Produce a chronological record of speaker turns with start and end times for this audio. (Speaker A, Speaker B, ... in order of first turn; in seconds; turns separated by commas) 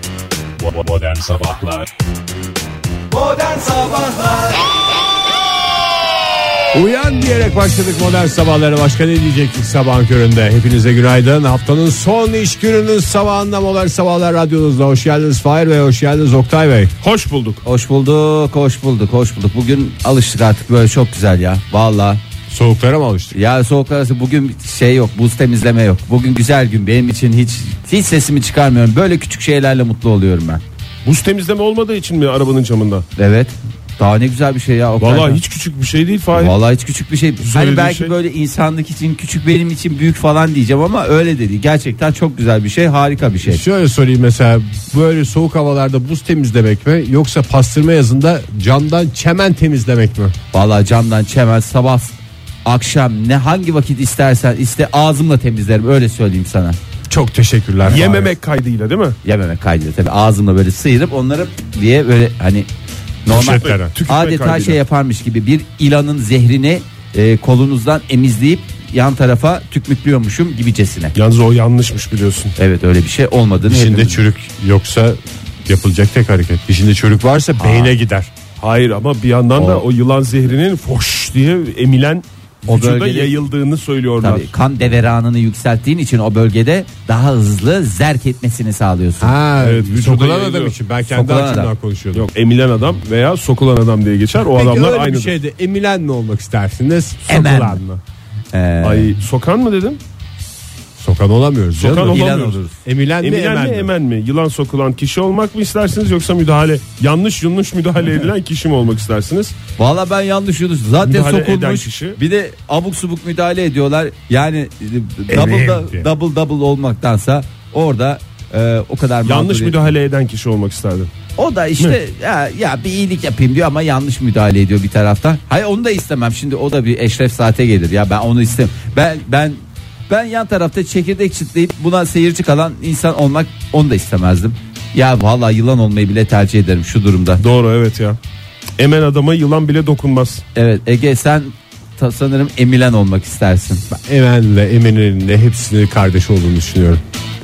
Speaker A: 0.6-1.9, Speaker A: 6.7-16.9, Speaker B: 17.0-17.6, Speaker C: 17.6-22.2, Speaker A: 22.5-23.4, Speaker C: 23.3-30.6, Speaker B: 31.1-33.1, Speaker C: 33.2-35.4, Speaker B: 35.0-36.6, Speaker C: 36.3-43.6, Speaker B: 37.4-38.1, Speaker A: 43.4-50.3, Speaker C: 50.5-56.8, Speaker A: 57.1-58.3, Speaker B: 57.9-59.2, Speaker C: 59.2-62.7, Speaker C: 63.3-71.1, Speaker A: 63.3-63.9, Speaker B: 63.3-64.8, Speaker B: 71.2-72.5, Speaker C: 72.6-74.2, Speaker A: 73.7-78.3, Speaker C: 77.6-77.9, Speaker B: 78.6-84.5, Speaker C: 79.6-79.8, Speaker C: 82.7-83.4, Speaker C: 84.2-89.3, Speaker A: 89.2-92.3, Speaker B: 89.6-90.7, Speaker C: 91.1-91.7, Speaker B: 92.1-95.3, Speaker A: 94.5-98.0, Speaker C: 97.3-97.8, Speaker C: 98.5-99.2, Speaker B: 98.8-100.0, Speaker A: 101.0-102.2, Speaker B: 101.8-102.6, Speaker C: 101.8-102.8, Speaker A: 102.8-103.9, Speaker B: 103.2-109.5, Speaker C: 109.8-119.8, Speaker B: 111.0-112.2, Speaker A: 115.3-116.1, Speaker B: 119.2-121.1, Speaker C: 121.4-137.4, Speaker B: 137.4-138.2, Speaker B: 138.8-140.4, Speaker C: 140.6-143.8, Speaker A: 143.9-147.0